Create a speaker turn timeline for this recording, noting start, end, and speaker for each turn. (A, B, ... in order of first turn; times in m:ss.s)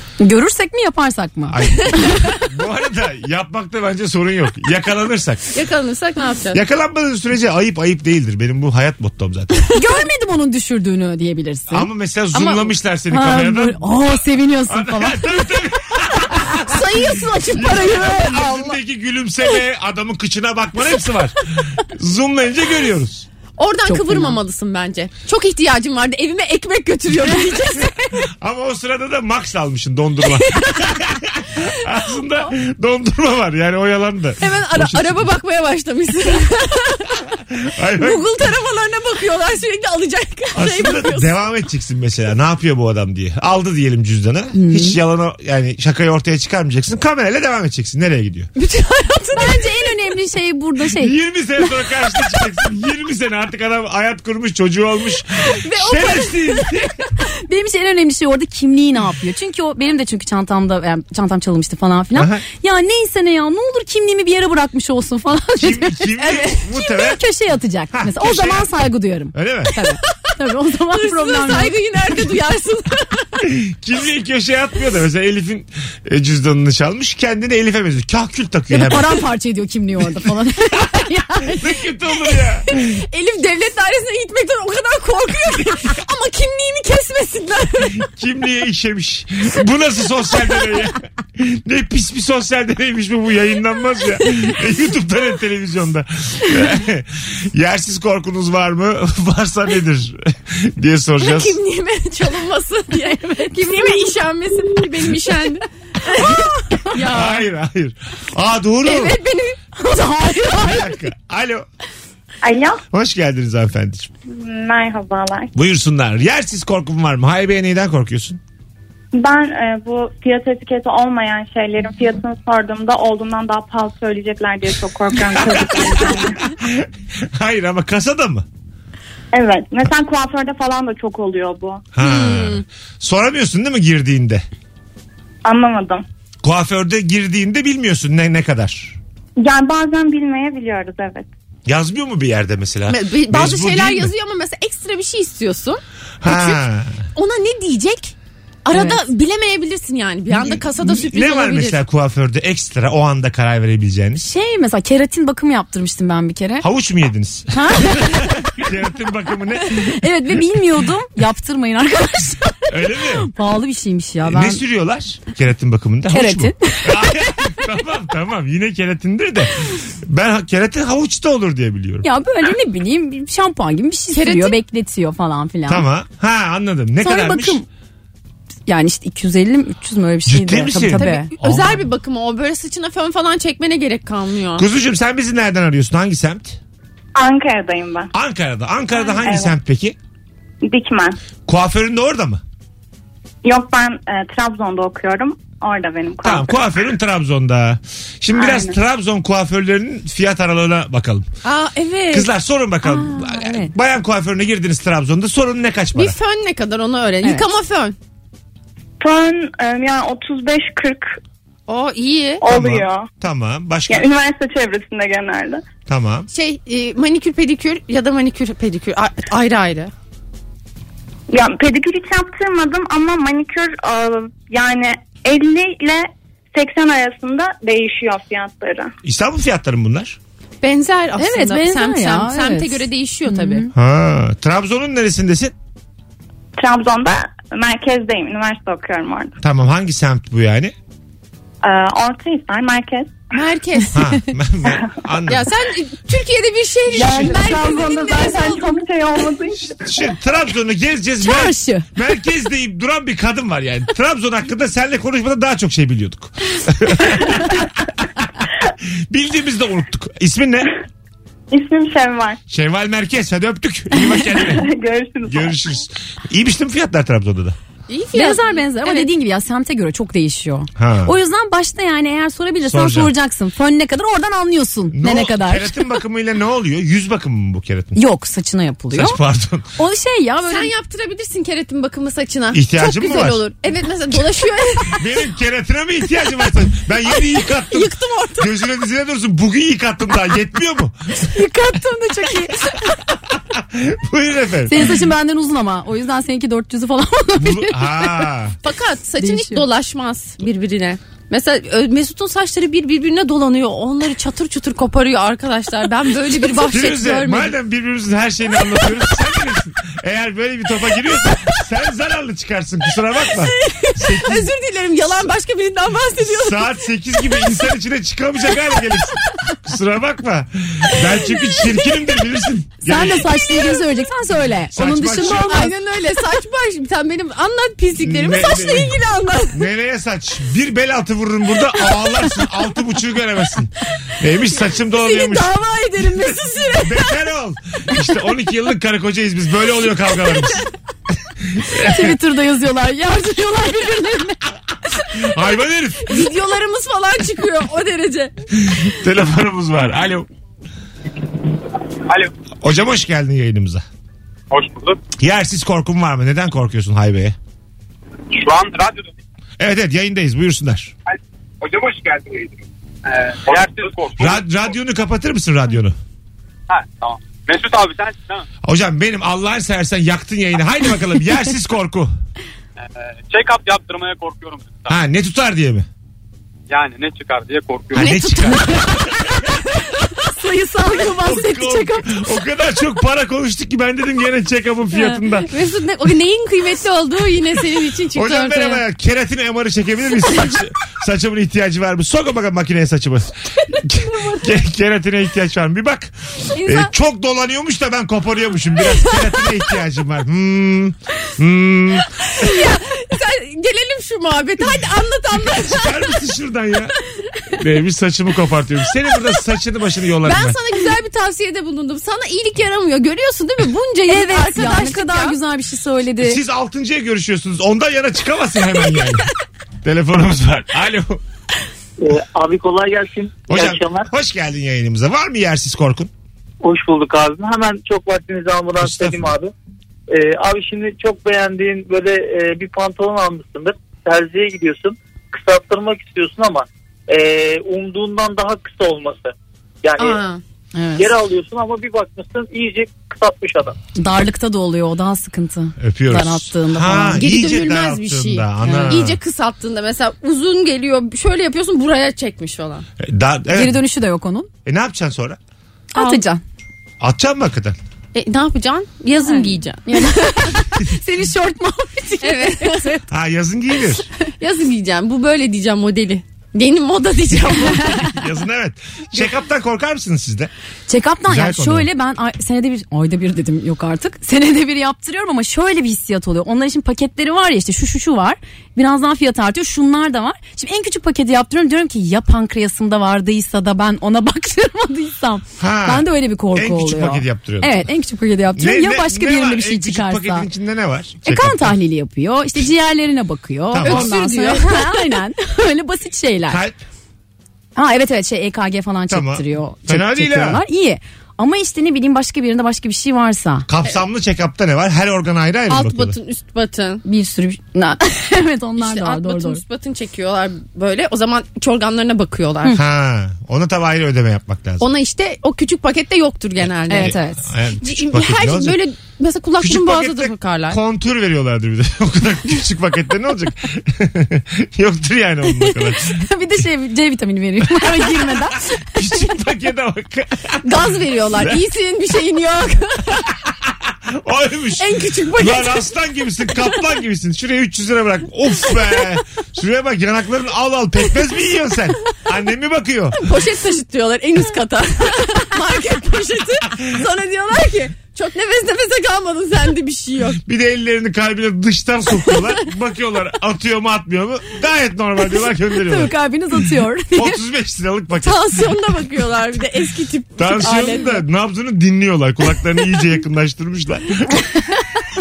0:00.2-0:02.4 A
0:01.5-0:05.5 B
0:05.5-0:06.6 C
0:06.5-0:09.6 B
0:09.7-0:11.9 A
0:11.7-0:14.0 B
0:12.3-0:12.7 C
0:13.1-0:15.3 A
0:14.7-0:23.3 B
0:16.6-0:18.6 C
0:23.6-0:28.3 C
0:23.9-0:24.4 A
0:28.4-0:35.3 B
0:30.4-0:31.0 C
0:34.4-0:37.2 C
0:37.6-0:38.2 B
0:38.0-0:41.3 C
0:40.6-0:48.5 B
0:44.6-0:45.0 A
0:48.6-0:49.9 C
0:49.3-0:51.2 A
0:50.8-0:57.0 B
0:55.4-0:56.5 A
0:57.2-1:11.8 A
1:02.2-1:02.4 B
1:05.6-1:07.2 B
1:07.9-1:08.7 B
1:09.3-1:09.7 B
1:10.9-1:13.5 C
1:13.4-1:19.2 B
1:18.7-1:21.7 A
1:21.5-1:23.0 B
1:22.7-1:28.1 C
1:28.1-1:41.6 B
1:41.2-1:47.5 C
1:43.1-1:44.1 A
1:46.2-1:46.9 A
1:47.0-1:49.2 B
1:48.8-1:49.7 C
1:49.8-1:50.9 A
1:50.5-1:51.7 B
1:52.4-1:52.8 D
1:52.9-1:54.1 B
1:54.3-1:55.5 D
1:55.5-1:58.4 B
1:59.1-2:06.4 D
2:05.2-2:08.5 B
2:09.3-2:11.8 D
2:11.9-2:14.4 B
2:12.0-2:12.6 C
2:15.4-2:16.0 D
2:16.4-2:19.0 B
2:19.4-2:21.3 D
2:21.7-2:24.1 B
2:22.9-2:26.6 C
2:26.2-2:27.0 B
2:27.2-2:28.1 C
2:28.6-2:31.8 C
2:28.7-2:29.0 A
2:30.4-2:34.2 B
2:34.2-2:36.7 A
2:36.6-2:40.0 B
2:37.5-2:38.3 A
2:39.7-2:44.6 A
2:42.7-2:43.3 B
2:44.2-2:52.1 B
2:46.1-2:47.4 A
2:52.0-2:55.8 A
2:54.1-2:54.6 C
2:55.7-2:57.6 B
2:57.0-2:57.6 A
2:58.7-3:01.3 A
3:00.2-3:01.8 B
3:00.9-3:04.6 C
3:04.6-3:06.6 B
3:07.1-3:08.1 D
3:08.1-3:10.0 B
3:09.2-3:09.6 D
3:10.6-3:11.2 D
3:11.5-3:12.4 B
3:13.4-3:16.6 D
3:16.2-3:21.3 B
3:18.3-3:18.8 D
3:21.4-3:22.3 C
3:22.1-3:26.2 B
3:22.8-3:23.7 A
3:26.0-3:28.0 C
3:29.0-3:31.2 D
3:31.7-3:32.4 C
3:32.4-3:33.1 D
3:32.4-3:34.1 B
3:33.9-3:35.6 D
3:35.9-3:36.3 B
3:36.3-3:39.9 C
3:41.3-3:48.9 D
3:49.0-3:50.2 B
3:50.6-3:53.7 C
3:51.2-3:53.7 A
3:53.7-3:55.5 B
3:56.6-3:59.4 D
3:59.4-4:00.7 B
4:01.6-4:03.2 D
4:03.3-4:04.1 C
4:03.9-4:05.5 B
4:05.3-4:08.8 C
4:06.9-4:09.8 D
4:09.8-4:18.0 B
4:11.2-4:11.9 A
4:18.8-4:20.7 B
4:21.5-4:22.4 D
4:22.5-4:24.7 B
4:24.1-4:25.6 D
4:25.3-4:27.6 B
4:27.9-4:29.1 C
4:28.1-4:35.8 A
4:30.8-4:31.1 B
4:32.6-4:33.1 B
4:34.9-4:38.0 B
4:38.0-4:39.2 A
4:38.9-4:39.7 B
4:39.8-4:40.7 A
4:40.4-4:45.0 C
4:42.5-4:43.4 B
4:45.0-4:51.3 B
4:47.3-4:48.6 C
4:51.2-4:52.9 A
4:52.9-4:54.9 B
4:54.7-4:58.2 A
4:57.4-4:58.6 B
4:58.6-5:07.5 C
4:59.2-4:59.6 A
5:06.7-5:14.5 B
5:13.4-5:16.7 C
5:16.2-5:23.5 B
5:22.8-5:25.7 A
5:24.7-5:25.6 B
5:25.2-5:29.7 C
5:28.0-5:29.0 B
5:29.5-5:35.5 B
5:35.1-5:37.1 C
5:35.2-5:36.7 A
5:36.8-5:40.6 B
5:41.5-5:42.2 B
5:41.7-5:44.4 A
5:45.1-5:46.2 B
5:46.1-5:48.4 C
5:48.6-5:50.3 B
5:52.6-5:53.8 B
5:54.5-5:55.0 E
5:55.2-5:57.4 B
5:58.3-5:59.1 E
5:59.6-6:00.9 B
6:01.1-6:04.5 E
6:04.2-6:06.0 B
6:06.7-6:08.5 E
6:08.6-6:12.1 B
6:12.8-6:15.0 E
6:14.9-6:15.9 B
6:16.7-6:18.1 E
6:17.9-6:19.6 B
6:18.0-6:19.0 C
6:19.9-6:22.1 A
6:20.9-6:25.5 B
6:25.5-6:28.8 C
6:28.1-6:42.2 B
6:42.3-6:46.2 C
6:45.5-6:47.0 B
6:47.6-6:50.6 B
6:50.2-6:55.4 C
6:54.1-6:56.4 A
6:56.2-6:59.3 B
6:59.8-7:01.2 B
7:02.0-7:04.1 F
7:03.5-7:06.1 B
7:06.6-7:09.5 F
7:08.8-7:09.3 B
7:10.1-7:20.2 F
7:20.0-7:20.4 C
7:20.8-7:21.1 A
7:21.0-7:23.8 F
7:24.0-7:27.2 A
7:25.8-7:29.2 B
7:27.2-7:32.9 C
7:28.6-7:29.0 A
7:33.0-7:33.8 B
7:33.5-7:34.5 A
7:34.6-7:35.4 B
7:35.9-7:36.4 A
7:36.0-7:36.2 C
7:37.0-7:37.8 B
7:38.1-7:40.6 C
7:39.2-7:43.0 A
7:42.2-7:43.0 C
7:43.1-7:44.1 B
7:44.4-7:48.2 C
7:48.1-7:50.5 B
7:50.9-8:10.5 A
7:51.2-7:51.9 B
8:05.6-8:07.9 B
8:08.6-8:11.8 B
8:11.2-8:16.6 A
8:13.7-8:14.1 B
8:13.8-8:15.2 C
8:16.5-8:16.8 B
8:17.8-8:23.6 A
8:19.1-8:20.6 B
8:23.7-8:26.2 B
8:25.7-8:27.0 C
8:27.0-8:29.6 A
8:28.8-8:32.8 C
8:32.7-8:34.9 B
8:34.8-8:37.2 C
8:36.9-8:37.4 A
8:37.0-8:38.8 B
8:37.8-8:40.8 C
8:39.6-8:46.2 B
8:45.6-8:49.3 A
8:47.7-8:51.6 B
8:50.6-8:53.3 C
8:53.4-9:03.3 B
8:54.8-8:55.9 C
9:03.2-9:10.4 C
9:10.4-9:16.1 B
9:15.7-9:17.4 A
9:17.1-9:18.7 B
9:18.2-9:21.2 C
9:20.4-9:24.4 B